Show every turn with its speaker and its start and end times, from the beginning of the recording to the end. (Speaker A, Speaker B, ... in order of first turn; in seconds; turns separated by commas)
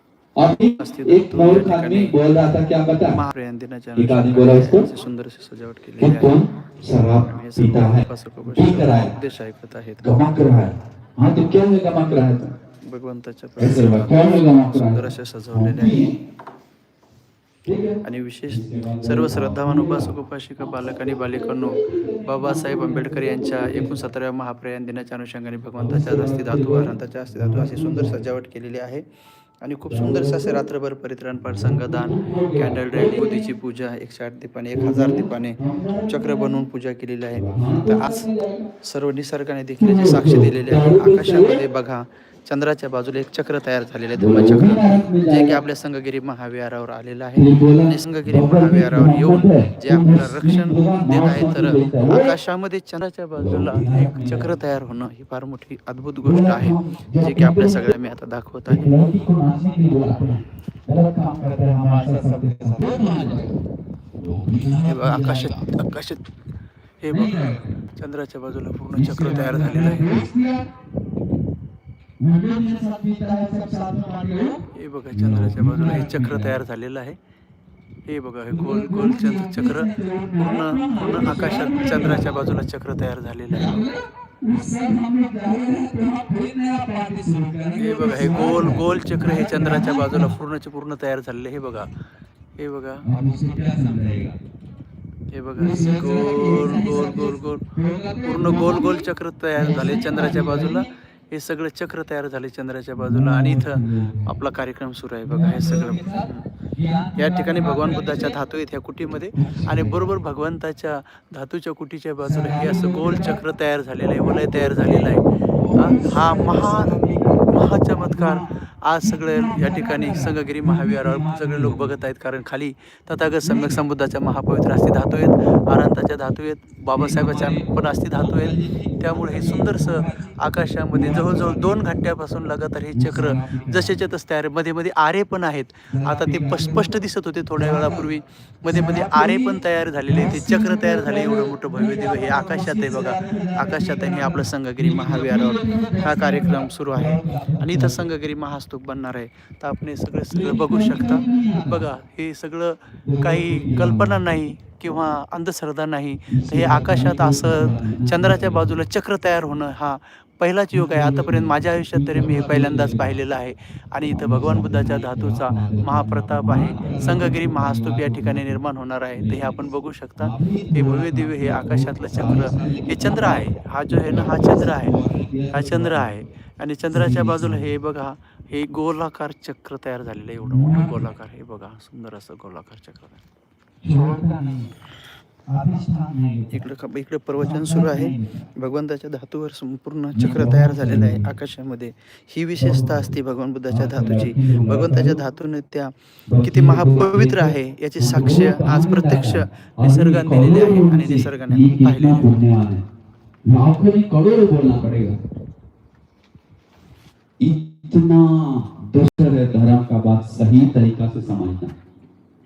Speaker A: 0.4-3.2, Speaker B: 0.8-2.2, Speaker B: 3.1-6.4, Speaker A: 4.0-4.9, Speaker A: 6.0-9.1, Speaker B: 7.1-10.2, Speaker A: 10.0-12.5, Speaker B: 12.6-16.0, Speaker A: 13.6-16.1, Speaker A: 17.7-24.0, Speaker B: 18.0-29.1, Speaker A: 25.8-28.2, Speaker B: 29.6-38.3, Speaker A: 29.9-30.6, Speaker A: 31.4-33.4, Speaker A: 34.7-36.6, Speaker A: 37.3-38.7, Speaker B: 38.8-59.1, Speaker A: 39.8-41.6, Speaker A: 44.1-45.6, Speaker A: 47.4-52.4, Speaker A: 53.4-54.5, Speaker A: 56.2-57.9, Speaker A: 58.7-63.6, Speaker B: 61.8-63.5, Speaker A: 64.2-65.7, Speaker B: 64.8-66.3, Speaker B: 67.0-70.3, Speaker A: 67.1-67.8, Speaker A: 68.9-70.7, Speaker A: 72.2-76.6, Speaker B: 74.7-77.2, Speaker B: 78.1-83.9, Speaker A: 78.5-82.3, Speaker A: 83.5-90.4, Speaker B: 87.8-91.9, Speaker B: 92.6-93.1, Speaker A: 93.0-94.4, Speaker B: 95.3-106.5, Speaker A: 95.6-100.9, Speaker A: 103.0-104.3, Speaker A: 105.2-108.4, Speaker B: 107.2-175.0, Speaker A: 109.3-110.1, Speaker A: 112.2-113.5, Speaker A: 114.2-118.5, Speaker A: 119.0-121.9, Speaker A: 123.4-123.8, Speaker A: 127.0-130.4, Speaker A: 130.9-131.8, Speaker A: 132.9-134.0, Speaker A: 135.9-137.0, Speaker A: 137.5-138.1, Speaker A: 138.6-148.0, Speaker A: 150.3-151.9, Speaker A: 153.1-154.3, Speaker A: 156.3-158.8, Speaker A: 160.7-163.2, Speaker A: 164.1-168.6, Speaker A: 169.2-169.6, Speaker A: 170.2-176.2, Speaker B: 175.5-183.2, Speaker A: 176.9-177.7, Speaker A: 180.4-181.1, Speaker A: 183.8-184.7, Speaker A: 185.5-186.6, Speaker B: 186.5-202.3, Speaker A: 187.4-188.5, Speaker A: 190.1-191.3, Speaker A: 192.6-193.1, Speaker A: 193.7-195.2, Speaker A: 196.3-202.8, Speaker A: 203.5-205.2, Speaker A: 207.4-211.7